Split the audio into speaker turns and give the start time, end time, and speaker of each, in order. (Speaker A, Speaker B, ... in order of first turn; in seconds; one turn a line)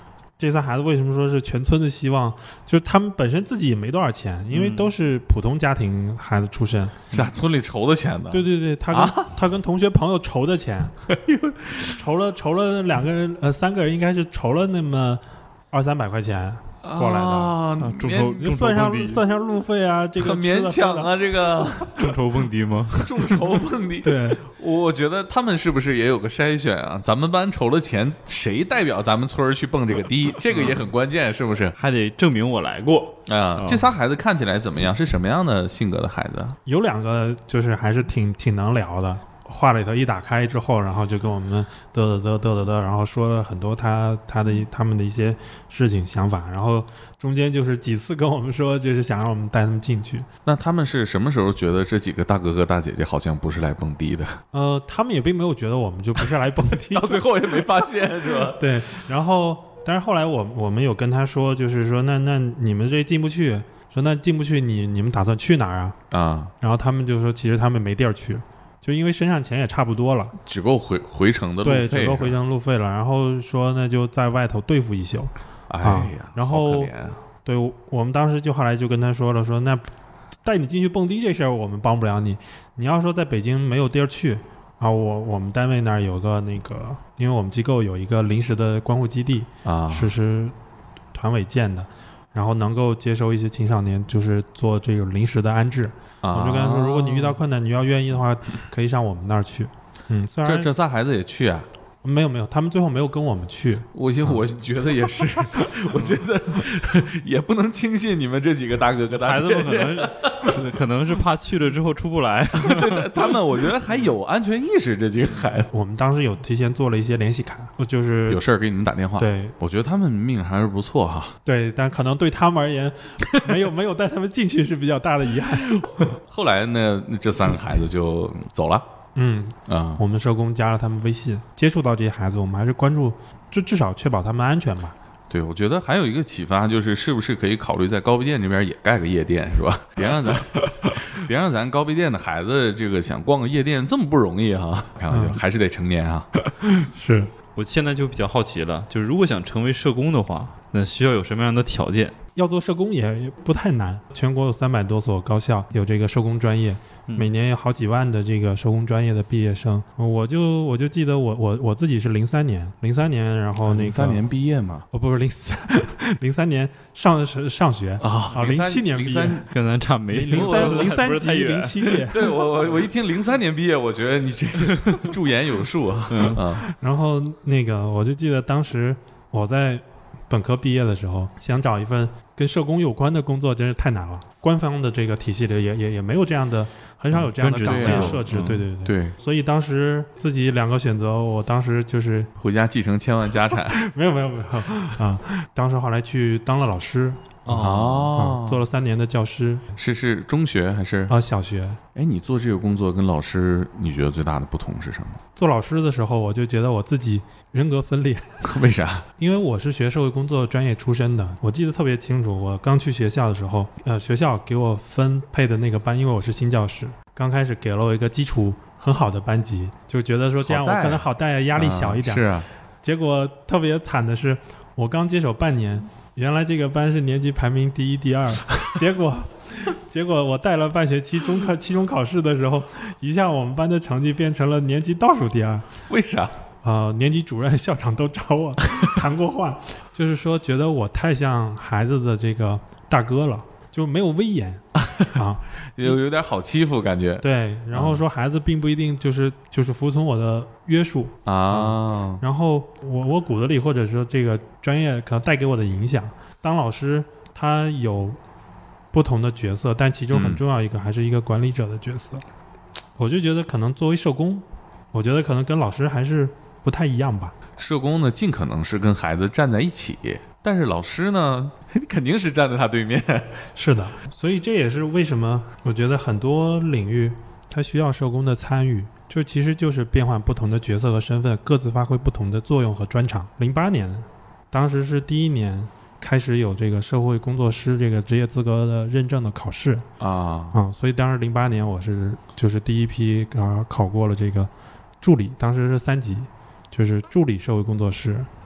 Speaker A: 0.4-7.0
Speaker B: 4.5-4.9
Speaker C: 7.1-9.3
Speaker A: 8.3-10.9
Speaker C: 11.1-11.9
Speaker A: 11.8-17.6
Speaker C: 16.8-18.6
Speaker B: 17.8-19.2
Speaker A: 18.4-21.1
Speaker C: 20.1-22.2
Speaker B: 21.9-23.2
Speaker C: 22.9-31.8
Speaker A: 24.0-24.4
Speaker B: 31.8-33.8
Speaker C: 33.3-36.6
Speaker A: 36.6-50.3
Speaker C: 50.4-54.4
Speaker A: 54.5-57.2
Speaker C: 56.8-58.6
Speaker A: 58.5-66.0
Speaker C: 66.1-66.5
Speaker A: 66.6-70.3
Speaker C: 70.5-72.3
Speaker A: 71.6-76.9
Speaker C: 75.7-77.2
Speaker A: 77.4-79.9
Speaker A: 80.4-90.5
Speaker C: 89.6-90.1
Speaker A: 91.1-100.7
Speaker C: 96.2-97.4
Speaker C: 100.4-101.7
Speaker A: 102.0-103.9
Speaker C: 103.9-110.6
Speaker B: 109.2-113.3
Speaker C: 112.5-115.7
Speaker A: 115.7-118.4
Speaker C: 118.3-121.3
Speaker A: 119.2-119.5
Speaker A: 121.4-125.8
Speaker C: 125.7-128.8
Speaker A: 129.2-134.9
Speaker C: 129.7-130.0
Speaker C: 135.3-146.3
Speaker A: 145.1-145.4
Speaker A: 146.7-147.3
Speaker B: 147.6-152.1
Speaker A: 152.3-164.2
Speaker C: 163.6-164.8
Speaker A: 164.9-169.4
Speaker C: 168.0-169.5
Speaker B: 169.5-171.9
Speaker A: 170.1-172.3
Speaker C: 170.3-170.9
Speaker C: 172.0-176.6
Speaker B: 176.1-176.4
Speaker A: 176.6-192.3
Speaker B: 187.1-188.6
Speaker C: 187.6-189.1
Speaker C: 192.3-193.8
Speaker A: 193.7-199.7
Speaker B: 197.4-198.1
Speaker C: 197.5-198.6
Speaker C: 199.8-201.1
Speaker A: 201.1-201.8
Speaker C: 201.9-205.2
Speaker A: 205.3-208.4
Speaker C: 208.4-209.1
Speaker A: 209.2-222.3
Speaker C: 220.4-222.5
Speaker A: 222.8-235.7
Speaker C: 235.9-236.3
Speaker A: 236.6-246.0
Speaker C: 244.8-245.1
Speaker C: 245.7-248.0
Speaker A: 247.2-258.2
Speaker C: 251.2-252.2
Speaker A: 258.9-262.2
Speaker C: 260.1-260.4
Speaker A: 263.0-267.3
Speaker C: 267.6-273.4
Speaker A: 273.6-289.9
Speaker C: 290.0-290.6
Speaker A: 290.5-294.5
Speaker A: 295.0-298.3